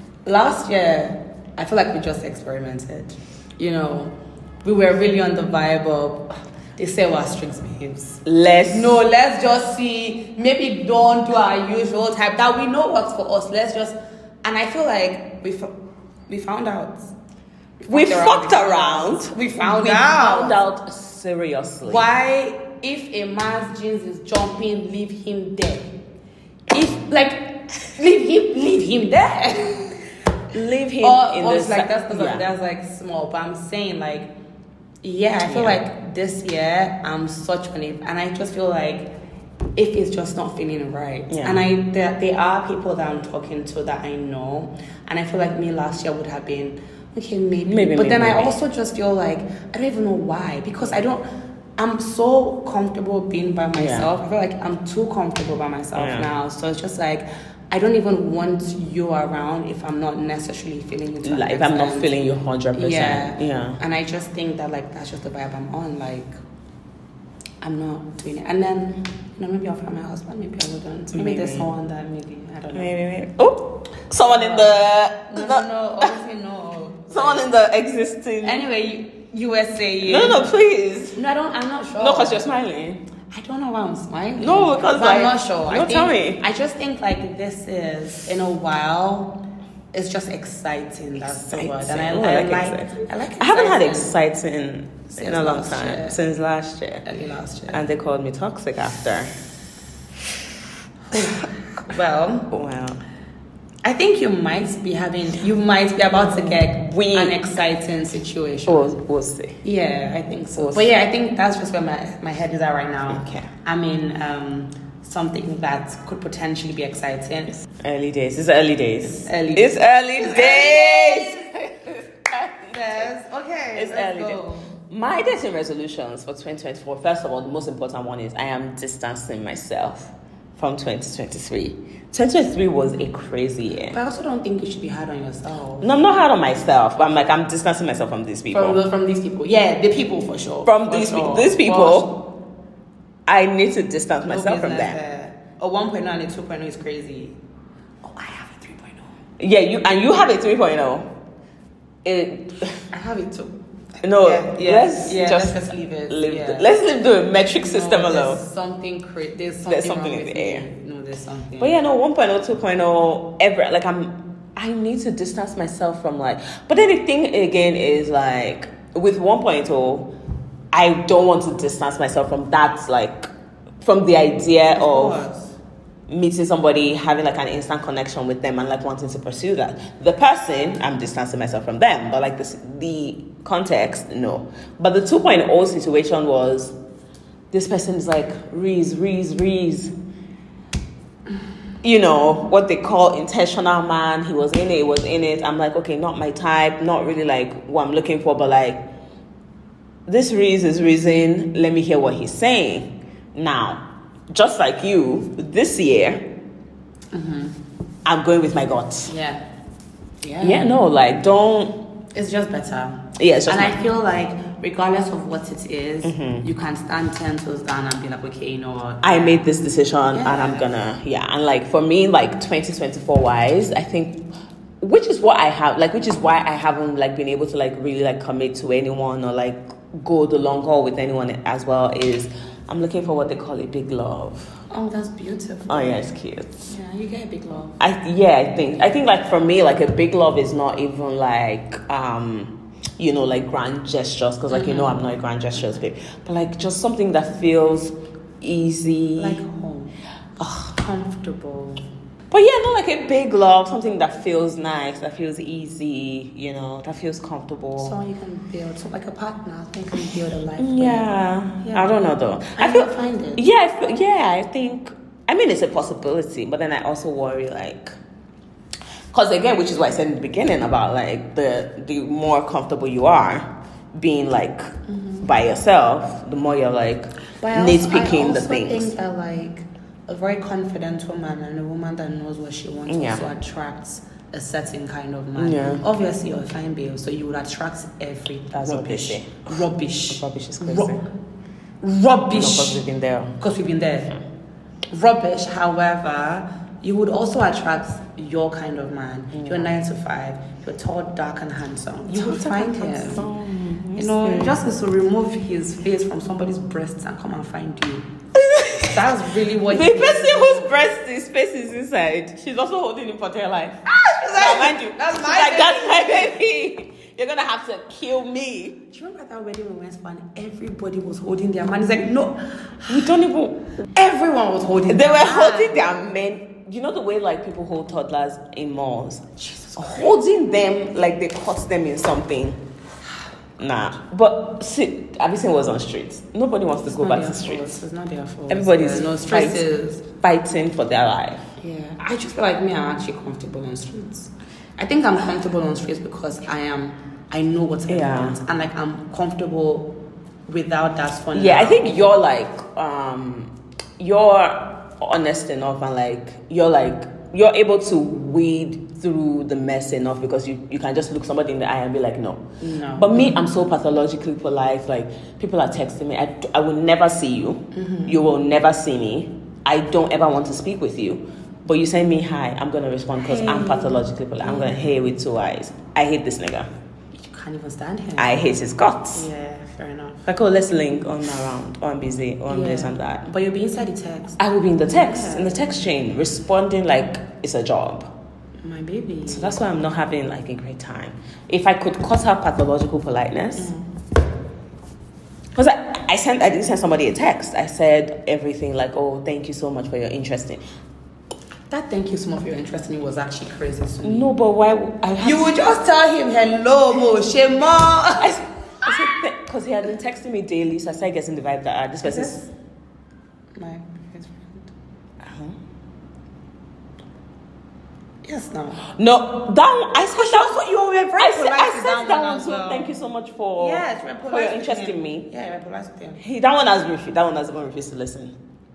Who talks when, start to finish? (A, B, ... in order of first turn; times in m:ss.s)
0:00.3-0:15.7 A
0:08.3-0:09.0 B
0:16.3-0:17.1 A
0:17.8-0:20.6 A
0:17.9-0:22.0 B
0:21.9-0:25.9 A
0:26.7-0:30.0 A
0:30.5-0:32.4 B
0:31.0-0:34.3 A
0:35.0-0:39.1 A
0:35.4-0:35.8 B
0:39.8-0:51.2 A
0:41.3-0:41.6 B
0:47.7-0:48.6 B
0:51.8-1:02.1 A
0:53.8-0:54.1 B
0:56.0-0:56.3 B
1:01.2-1:03.8 B
1:02.7-1:06.3 A
1:07.6-1:12.9 A
1:11.1-1:11.7 B
1:12.7-1:16.1 B
1:14.2-1:14.8 A
1:15.3-1:17.5 A
1:17.1-1:18.6 B
1:18.4-1:20.5 A
1:20.0-1:21.2 B
1:21.1-1:22.4 A
1:22.0-1:23.0 B
1:23.3-1:29.3 A
1:24.4-1:26.4 B
1:29.9-1:34.1 A
1:31.2-1:37.0 B
1:35.1-1:36.2 A
1:37.0-1:37.8 A
1:37.7-1:39.3 B
1:41.1-1:42.5 A
1:42.5-1:43.0 B
1:43.8-1:49.0 A
1:46.2-1:47.4 B
1:48.7-1:49.6 B
1:49.6-1:57.6 A
1:50.6-1:50.9 B
1:53.1-1:53.5 B
1:57.8-2:03.1 B
1:59.0-2:01.5 A
2:02.7-2:04.7 A
2:03.8-2:14.0 B
2:13.9-2:15.9 A
2:15.8-2:18.8 B
2:18.5-2:22.2 A
2:20.6-2:22.1 B
2:23.3-2:25.0 B
2:24.3-2:27.4 A
2:28.0-2:29.1 A
2:29.4-2:31.1 B
2:32.0-2:32.8 B
2:32.9-2:36.7 A
2:34.0-2:38.4 B
2:37.6-2:41.8 A
2:39.7-2:40.7 B
2:41.6-2:50.1 B
2:50.7-2:53.3 B
2:53.8-2:55.2 B
2:54.7-2:55.6 A
2:56.1-3:06.8 B
3:07.5-3:09.9 B
3:11.8-3:18.8 B
3:20.1-3:26.3 B
3:27.1-3:27.6 A
3:28.0-3:29.1 B
3:29.1-3:29.4 A
3:30.2-3:30.7 A
3:30.4-3:31.8 B
3:32.1-3:39.4 A
3:33.2-3:33.8 B
3:36.0-3:36.5 B
3:39.0-3:44.2 B
3:40.1-3:40.7 A
3:44.8-3:54.6 B
3:54.7-3:56.1 A
3:55.7-3:56.7 B
3:56.7-3:57.8 A
3:57.8-4:09.4 B
4:04.5-4:05.0 A
4:09.2-4:11.8 A
4:12.3-4:18.0 B
4:17.8-4:21.1 A
4:20.6-4:28.0 B
4:21.6-4:22.0 A
4:22.5-4:23.4 A
4:29.1-4:34.7 B
4:34.9-4:35.3 A
4:35.2-4:38.9 B
4:37.4-4:51.0 A
4:42.9-4:43.3 B
4:45.4-4:45.8 B
4:48.5-4:51.0 B
4:51.8-4:52.8 A
4:52.3-4:53.4 B
4:53.4-4:54.2 A
4:54.9-5:03.3 A
4:59.3-4:59.7 B
5:02.1-5:04.6 B
5:04.0-5:08.1 A
5:08.4-5:09.1 B
5:08.8-5:10.7 A
5:09.7-5:13.8 B
5:13.9-5:16.4 A
5:14.4-5:18.8 B
5:18.9-5:23.1 A
5:22.9-5:23.7 B
5:24.0-5:25.8 A
5:24.9-5:29.2 B
5:29.4-5:30.2 A
5:29.8-5:32.6 B
5:33.6-5:37.7 B
5:36.9-5:40.0 A
5:38.5-5:41.4 B
5:41.6-5:49.9 A
5:47.9-5:48.4 B
5:50.5-5:52.1 A
5:51.3-6:16.7 B
6:02.6-6:03.4 A
6:07.7-6:08.2 A
6:13.2-6:14.9 A
6:17.2-6:18.5 A
6:18.2-6:19.2 B
6:19.1-6:20.3 A
6:20.3-6:23.3 B
6:22.5-6:25.6 A
6:24.4-6:28.1 B
6:28.6-6:29.6 A
6:29.3-6:33.7 B
6:33.6-6:33.9 A
6:35.6-6:40.6 B
6:41.7-6:44.3 A
6:44.0-6:45.5 B
6:45.2-6:48.4 A
6:48.2-6:52.4 B
6:52.0-6:52.5 A
6:53.6-6:54.7 A
6:55.2-6:55.6 B
6:58.2-6:58.8 A
6:58.8-7:00.6 B
7:00.2-7:02.9 A
7:01.2-7:05.3 B
7:03.6-7:06.2 A
7:06.2-7:08.3 B